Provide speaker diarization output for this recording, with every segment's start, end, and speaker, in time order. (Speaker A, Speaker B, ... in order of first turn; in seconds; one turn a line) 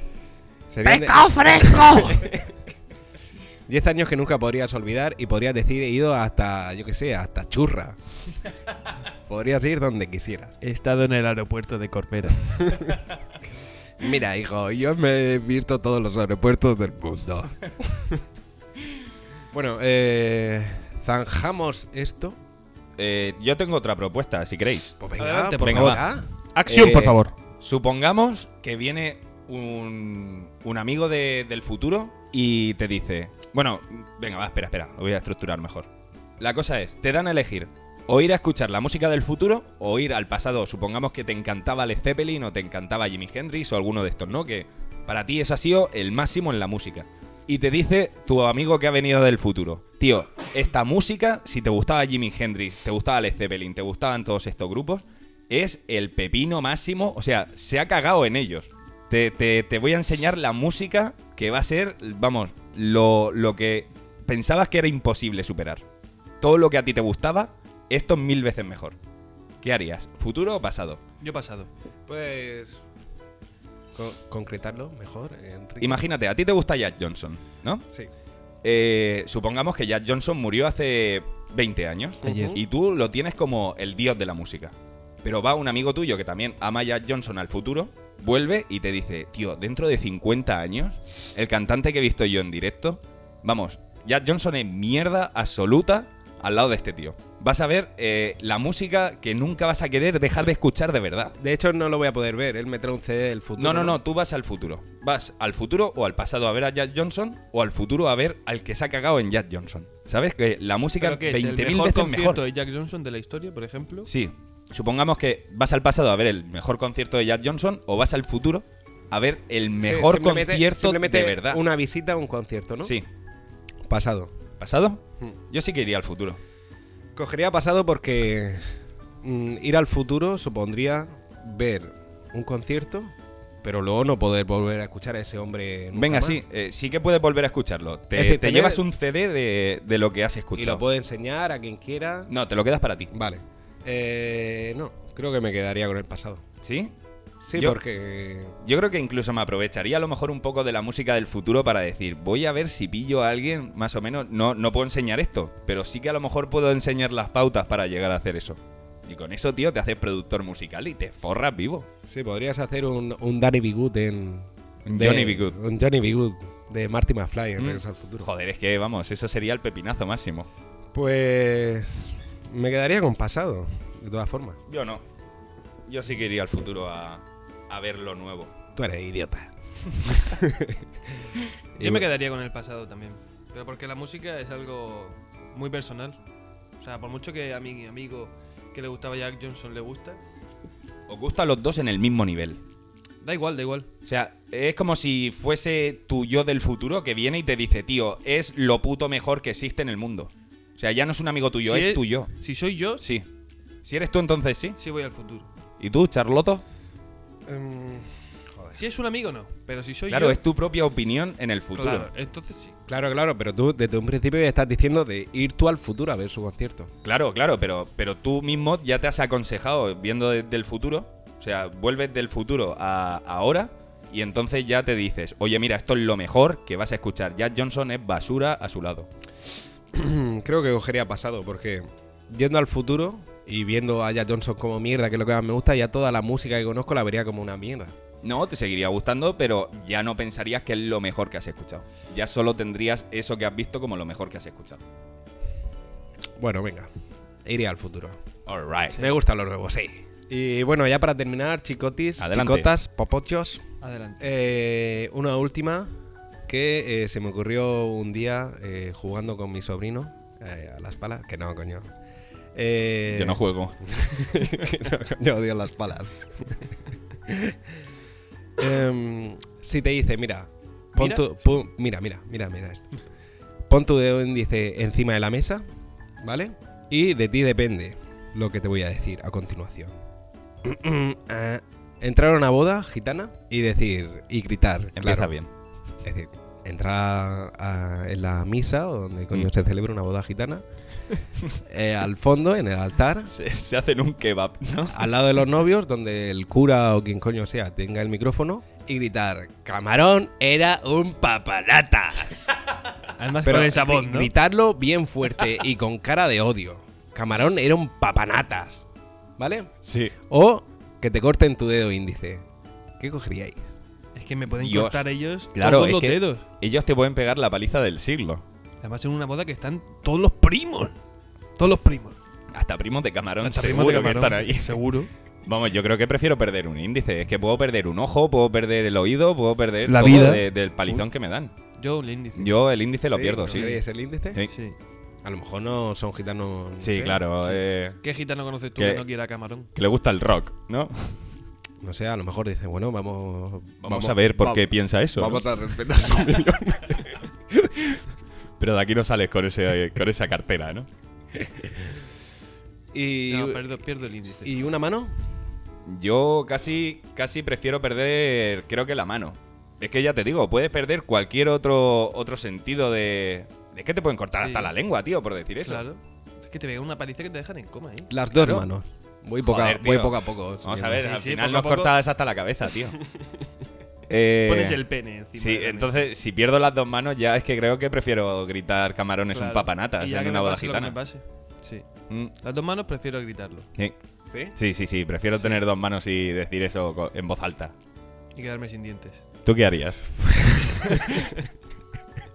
Speaker A: 0.7-2.6
Speaker B: 0.8-2.2
Speaker A: 3.7-8.0
Speaker A: 9.3-10.6
Speaker B: 10.6-12.9
Speaker A: 12.6-13.0
Speaker A: 14.0-18.2
Speaker A: 19.5-22.4
Speaker C: 23.0-25.0
Speaker A: 25.0-26.3
Speaker B: 25.2-27.3
Speaker C: 25.6-26.0
Speaker C: 26.7-35.9
Speaker C: 36.4-65.8
Speaker C: 66.4-69.0
Speaker C: 69.6-71.0
Speaker B: 71.2-71.7
Speaker A: 72.1-72.8
Speaker A: 73.9-76.0
Speaker C: 75.8-77.8
Speaker C: 78.6-101.4
Speaker B: 82.2-82.6
Speaker A: 82.2-82.6
Speaker A: 101.4-104.0
Speaker C: 103.6-112.4
Speaker B: 111.0-114.1
Speaker C: 114.1-121.6
Speaker A: 119.8-123.0
Speaker A: 123.9-124.3
Speaker C: 124.6-126.4
Speaker A: 127.2-128.7
Speaker A: 129.2-136.4
Speaker C: 135.9-140.8
Speaker A: 138.1-138.8
Speaker A: 140.6-142.3
Speaker C: 142.3-143.1
Speaker A: 143.1-146.4
Speaker C: 146.6-146.9
Speaker A: 147.4-148.6
Speaker C: 148.6-161.9
Speaker A: 162.1-168.3
Speaker C: 164.9-165.6
Speaker C: 167.6-170.5
Speaker A: 170.9-174.6
Speaker C: 174.7-175.0
Speaker C: 175.9-178.5
Speaker A: 178.8-182.1
Speaker B: 181.8-186.2
Speaker B: 186.8-190.2
Speaker C: 191.1-192.6
Speaker B: 193.2-193.9
Speaker C: 194.1-202.3
Speaker B: 201.6-203.1
Speaker C: 203.8-204.8
Speaker B: 204.8-205.5
Speaker C: 205.8-206.6
Speaker A: 207.5-208.8
Speaker B: 208.7-210.4
Speaker C: 210.1-212.1
Speaker B: 211.8-212.8
Speaker A: 212.9-216.9
Speaker C: 217.0-229.1
Speaker A: 229.9-238.0
Speaker C: 238.2-244.8
Speaker A: 246.4-246.9
Speaker A: 247.4-248.2
Speaker C: 248.5-249.0
Speaker A: 248.9-253.6
Speaker C: 252.2-252.7
Speaker B: 253.8-254.3
Speaker A: 254.2-255.9
Speaker A: 256.5-261.9
Speaker A: 262.5-266.7
Speaker C: 263.1-263.8
Speaker A: 267.3-267.7
Speaker A: 268.6-272.9
Speaker B: 271.0-271.2
Speaker A: 273.7-275.6
Speaker A: 276.2-280.0
Speaker A: 280.6-285.3
Speaker C: 285.0-285.5
Speaker A: 286.0-290.6
Speaker A: 291.6-293.3
Speaker C: 293.3-295.1
Speaker A: 294.9-302.5
Speaker B: 303.2-304.3
Speaker A: 303.4-308.9
Speaker A: 309.4-312.5
Speaker C: 309.9-310.1
Speaker A: 313.0-313.8
Speaker B: 314.1-316.4
Speaker C: 314.6-318.4
Speaker B: 318.8-320.9
Speaker B: 321.6-322.2
Speaker C: 322.5-324.8
Speaker B: 323.4-325.1
Speaker C: 325.4-331.5
Speaker B: 329.9-331.1
Speaker B: 331.8-332.6
Speaker C: 332.4-333.7
Speaker A: 333.1-334.4
Speaker B: 333.5-333.8
Speaker B: 334.4-334.8
Speaker A: 335.2-337.2
Speaker C: 336.8-338.0
Speaker B: 337.4-339.7
Speaker C: 338.8-339.0
Speaker C: 339.8-341.3
Speaker A: 341.8-347.8
Speaker C: 343.8-345.5
Speaker C: 348.6-350.9
Speaker A: 351.4-352.0
Speaker A: 352.9-353.8
Speaker B: 353.3-354.6
Speaker A: 354.4-355.1
Speaker C: 355.9-365.8
Speaker B: 364.4-364.7
Speaker B: 365.6-368.1
Speaker A: 368.1-371.0
Speaker C: 368.3-368.7
Speaker C: 369.4-373.0
Speaker B: 371.0-372.0
Speaker C: 374.1-374.8
Speaker B: 374.5-375.9
Speaker C: 375.4-381.0
Speaker B: 379.3-381.9
Speaker B: 382.4-383.7
Speaker A: 384.3-384.6
Speaker C: 384.6-387.7
Speaker B: 385.4-385.6
Speaker B: 388.4-389.2
Speaker C: 389.4-391.3
Speaker B: 390.9-391.2